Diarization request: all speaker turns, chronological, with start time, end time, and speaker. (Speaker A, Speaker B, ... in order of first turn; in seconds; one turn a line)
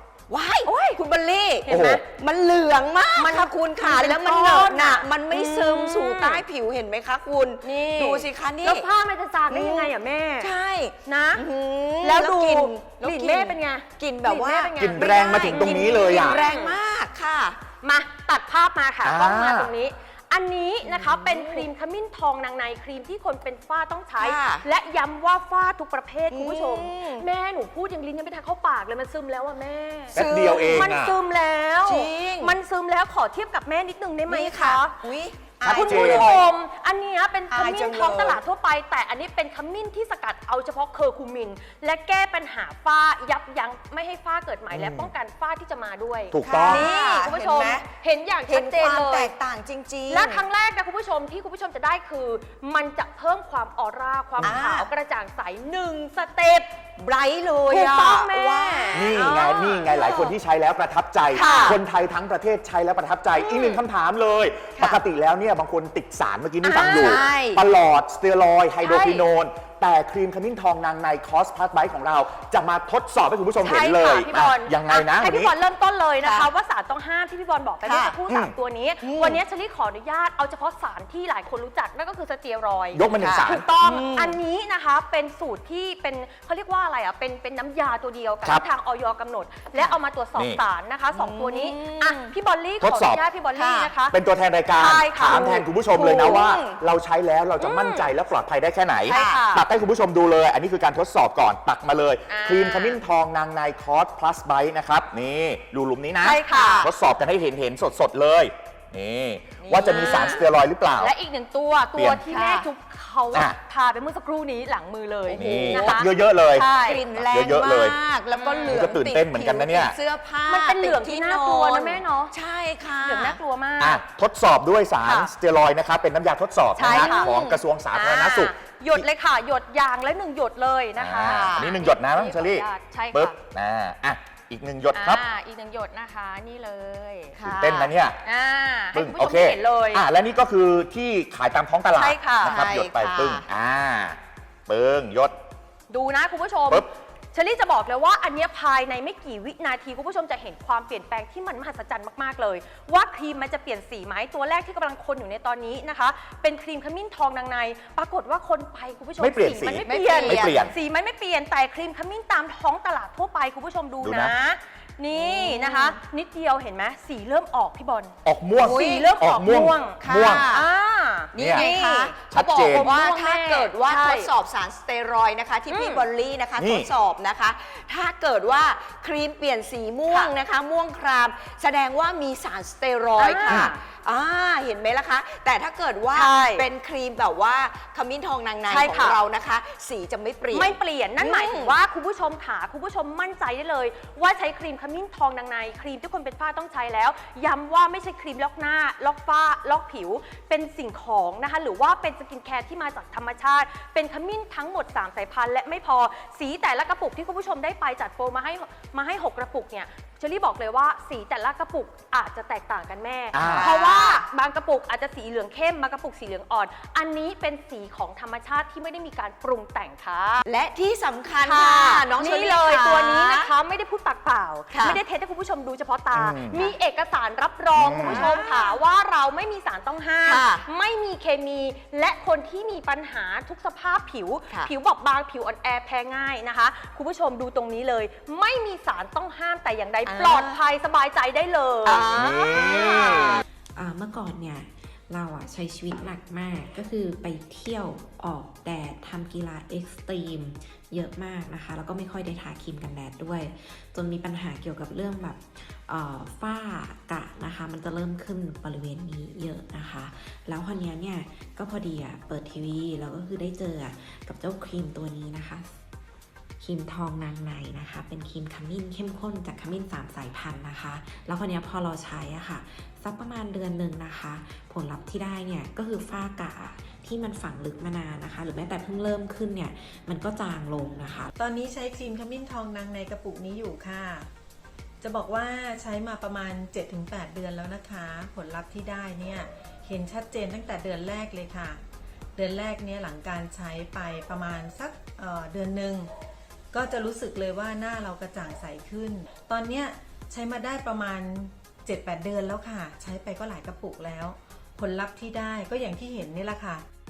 Speaker A: 0.3-8.8
Speaker B: 0.7-1.0
Speaker B: 1.6-2.0
Speaker C: 1.7-2.0
Speaker B: 3.1-6.4
Speaker B: 7.6-10.5
Speaker A: 9.5-17.6
Speaker B: 11.0-11.4
Speaker B: 12.0-16.8
Speaker C: 14.8-16.4
Speaker B: 17.8-35.0
Speaker C: 19.0-19.7
Speaker A: 20.8-21.7
Speaker A: 24.2-24.6
Speaker A: 26.3-27.3
Speaker C: 30.1-31.1
Speaker A: 30.1-30.9
Speaker A: 31.8-32.5
Speaker A: 34.3-36.4
Speaker C: 35.6-36.4
Speaker B: 35.7-49.3
Speaker A: 37.5-38.4
Speaker C: 44.7-45.1
Speaker C: 46.3-46.9
Speaker A: 46.4-47.8
Speaker A: 48.5-50.4
Speaker B: 50.1-56.7
Speaker A: 54.4-54.9
Speaker A: 57.0-60.3
Speaker B: 57.7-59.4
Speaker C: 58.9-75.5
Speaker A: 61.3-61.8
Speaker B: 61.3-61.8
Speaker A: 63.4-63.8
Speaker A: 64.8-65.0
Speaker B: 66.6-67.3
Speaker A: 66.8-67.6
Speaker B: 68.8-69.3
Speaker B: 73.6-94.2
Speaker A: 76.2-76.5
Speaker A: 77.8-78.2
Speaker C: 78.3-78.5
Speaker A: 79.0-79.4
Speaker C: 82.9-83.7
Speaker A: 83.1-84.3
Speaker A: 91.1-92.3
Speaker C: 92.8-93.2
Speaker A: 93.5-93.9
Speaker C: 94.1-111.1
Speaker B: 94.7-96.5
Speaker A: 95.3-96.8
Speaker B: 97.6-98.1
Speaker B: 99.1-99.6
Speaker A: 99.1-99.4
Speaker B: 102.3-103.0
Speaker A: 106.2-106.9
Speaker B: 106.2-106.9
Speaker A: 109.6-110.5
Speaker B: 109.8-110.4
Speaker B: 111.0-117.0
Speaker C: 112.0-112.2
Speaker A: 112.3-112.7
Speaker C: 113.3-113.6
Speaker A: 115.3-116.0
Speaker C: 115.3-118.0
Speaker A: 116.7-123.4
Speaker B: 118.3-118.9
Speaker C: 118.7-119.9
Speaker B: 120.5-122.3
Speaker B: 123.0-124.0
Speaker C: 123.8-129.0
Speaker B: 125.0-125.3
Speaker B: 126.8-133.3
Speaker A: 126.8-127.6
Speaker C: 131.0-135.2
Speaker A: 131.2-131.8
Speaker B: 134.9-137.4
Speaker A: 137.3-137.9
Speaker C: 137.4-138.2
Speaker B: 138.2-140.0
Speaker C: 138.9-145.4
Speaker B: 141.9-142.6
Speaker A: 142.4-143.4
Speaker B: 145.9-174.3
Speaker C: 159.2-160.7
Speaker A: 159.8-160.7
Speaker C: 164.0-164.3
Speaker A: 165.1-166.0
Speaker C: 168.2-170.5
Speaker A: 168.6-169.1
Speaker A: 170.0-170.7
Speaker A: 171.3-191.7
Speaker C: 171.3-171.7
Speaker C: 172.3-172.9
Speaker B: 175.7-176.1
Speaker C: 176.6-176.9
Speaker B: 183.2-183.8
Speaker B: 186.1-186.7
Speaker B: 188.7-189.2
Speaker B: 190.5-220.4
Speaker C: 213.3-213.7
Speaker A: 213.3-214.2
Speaker A: 220.4-223.5
Speaker B: 221.4-242.1
Speaker A: 224.7-225.0
Speaker C: 226.1-226.7
Speaker C: 227.8-228.3
Speaker A: 228.0-228.8
Speaker A: 230.2-230.7
Speaker A: 240.1-240.6
Speaker A: 241.8-243.4
Speaker C: 242.1-243.4
Speaker D: 243.8-265.7
Speaker D: 266.6-281.3
Speaker E: 281.4-284.3
Speaker E: 285.0-291.8
Speaker E: 292.4-296.1
Speaker E: 296.7-306.8